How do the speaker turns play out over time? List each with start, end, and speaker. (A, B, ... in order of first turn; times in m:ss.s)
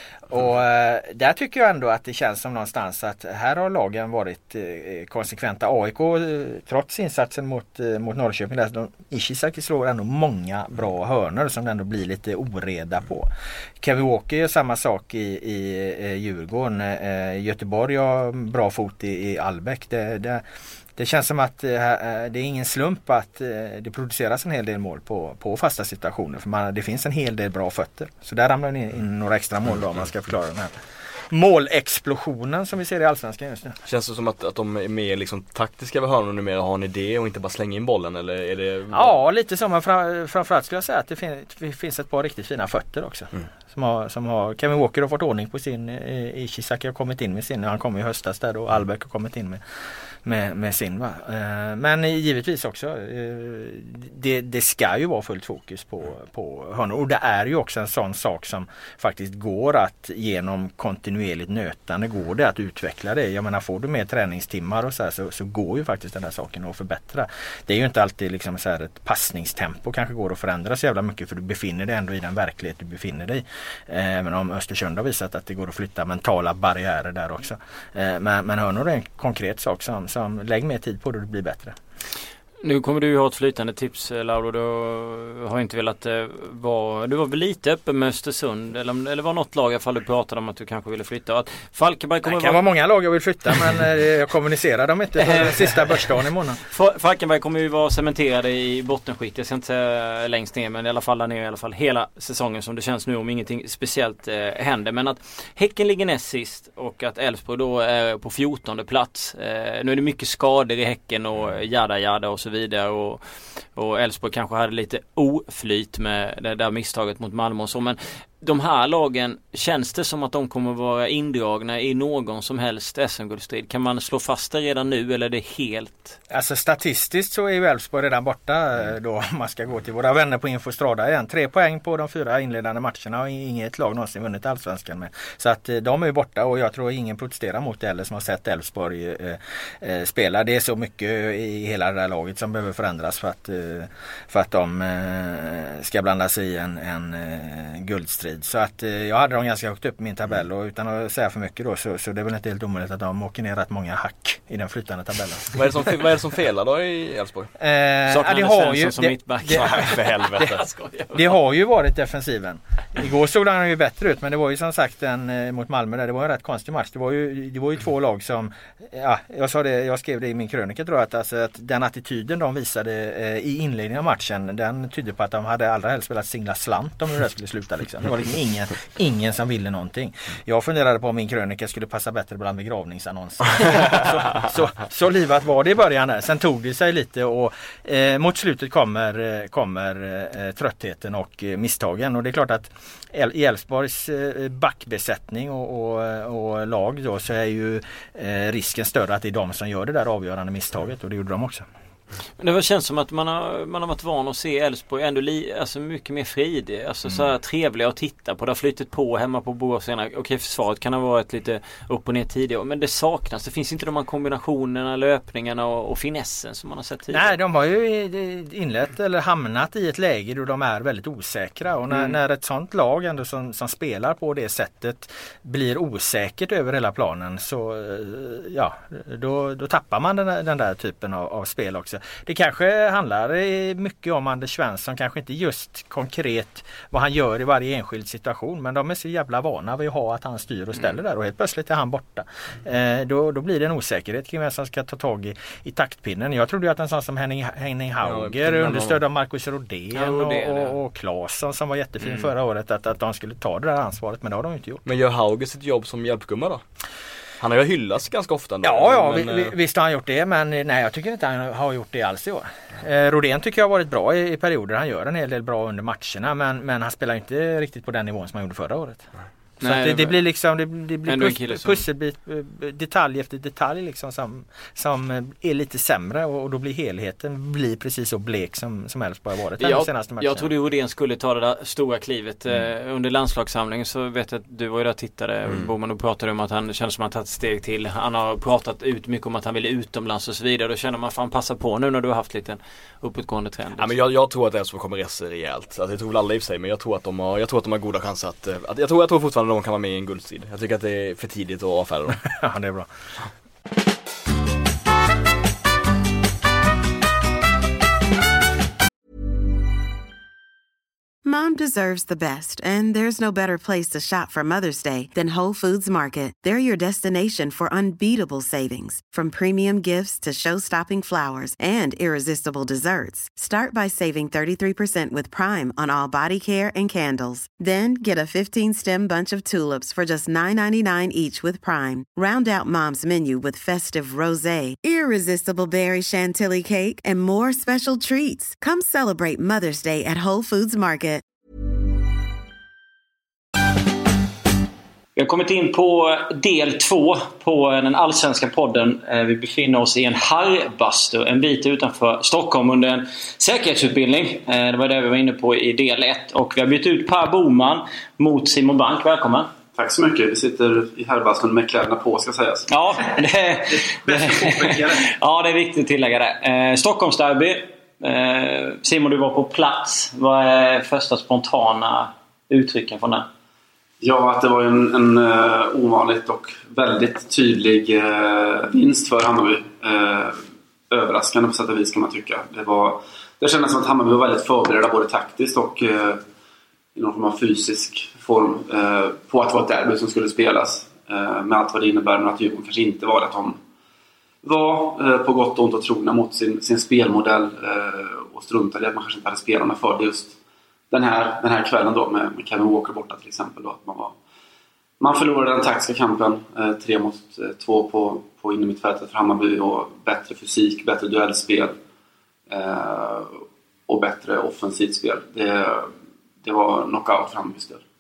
0:00.3-0:13.3 A
0:13.8-0:20.4 A
0:21.0-0:30.8 A
0:31.3-0:33.8 A
0:33.8-0:39.1 B
0:38.9-0:49.6 A
0:50.2-1:21.7 A
1:22.6-1:32.6 C
1:32.2-1:36.6 A
1:35.2-1:36.0 C
1:36.6-2:06.2 C
2:06.3-2:35.6 A
2:35.5-2:37.5 B
2:37.6-2:40.6 A
2:38.1-2:41.3 C
2:39.5-2:40.6 B
2:41.1-3:21.7 A
3:22.4-3:37.3 C
3:37.1-4:14.8 A
3:41.9-3:42.2 C
4:08.0-4:09.0 B
4:09.9-4:10.8 C
4:14.8-4:16.6 B
4:17.4-4:19.5 B
4:18.6-4:29.1 A
4:29.6-4:40.5 A
4:29.6-4:30.2 C
4:31.0-4:31.8 C
4:39.6-4:53.9 C
4:53.8-5:02.2 B
5:02.3-5:02.9 A
5:11.2-5:41.2 D
5:45.2-5:59.5 C
5:59.7-6:02.7 E
6:02.7-6:13.3 C
6:03.7-6:05.1 A
6:14.0-6:26.2 E
6:26.9-6:33.6 E
6:34.4-6:40.4 E
6:40.9-6:44.1 E
6:45.0-6:51.8 E
6:52.5-6:57.8 E